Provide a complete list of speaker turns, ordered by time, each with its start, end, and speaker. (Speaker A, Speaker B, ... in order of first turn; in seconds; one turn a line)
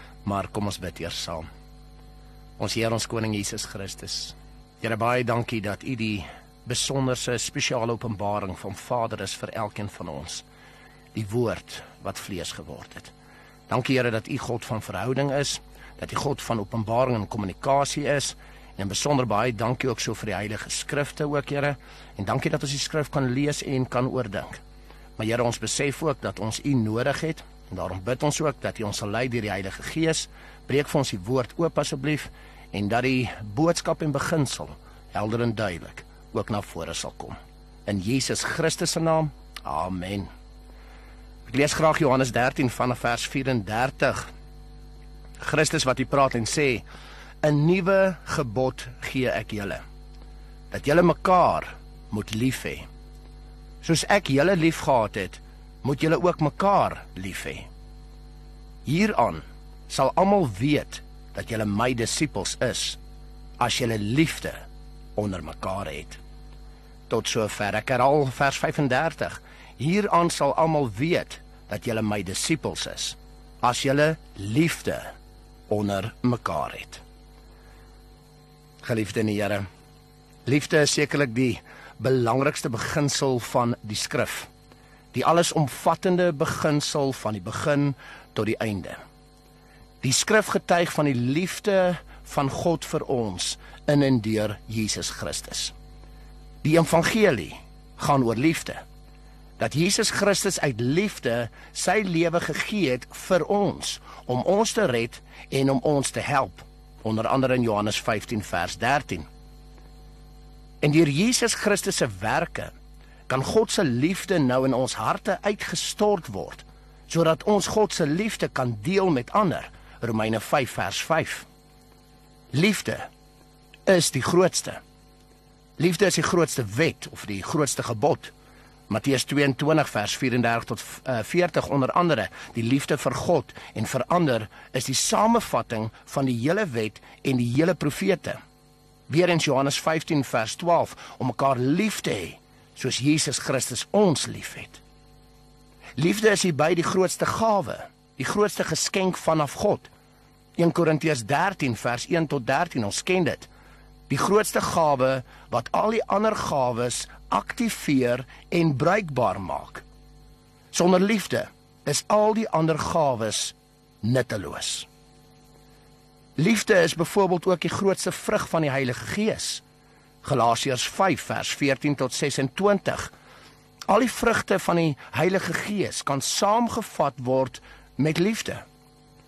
Speaker A: 0.2-1.4
Speaker A: 2.6-10.4
Speaker A: 11.1-13.1
Speaker A: 13.7-24.6
Speaker A: 25.2-40.3
Speaker A: 41.5-44.3
Speaker A: 45.4-46.8
Speaker A: 47.4-49.8
Speaker A: 50.7-52.9
Speaker A: 53.8-57.7
Speaker A: 58.8-63.0
Speaker A: 63.6-64.6
Speaker A: 65.2-66.2
Speaker A: 67.1-75.1
Speaker A: 75.7-77.0
Speaker A: 78.8-79.6
Speaker A: 80.4-84.5
Speaker A: 85.1-89.0
Speaker A: 90.0-95.7
Speaker A: 96.6-98.8
Speaker A: 99.6-109.3
Speaker A: 110.8-112.7
Speaker A: 113.3-121.5
Speaker A: 122.5-123.1
Speaker A: 123.8-124.8
Speaker A: 125.8-128.3
Speaker A: 128.9-138.4
Speaker A: 139.1-144.8
Speaker A: 146.0-149.9
Speaker A: 150.6-153.5
Speaker A: 154.1-159.8
Speaker A: 160.7-164.9
Speaker A: 166.4-169.6
Speaker A: 170.2-173.1
Speaker A: 173.9-178.6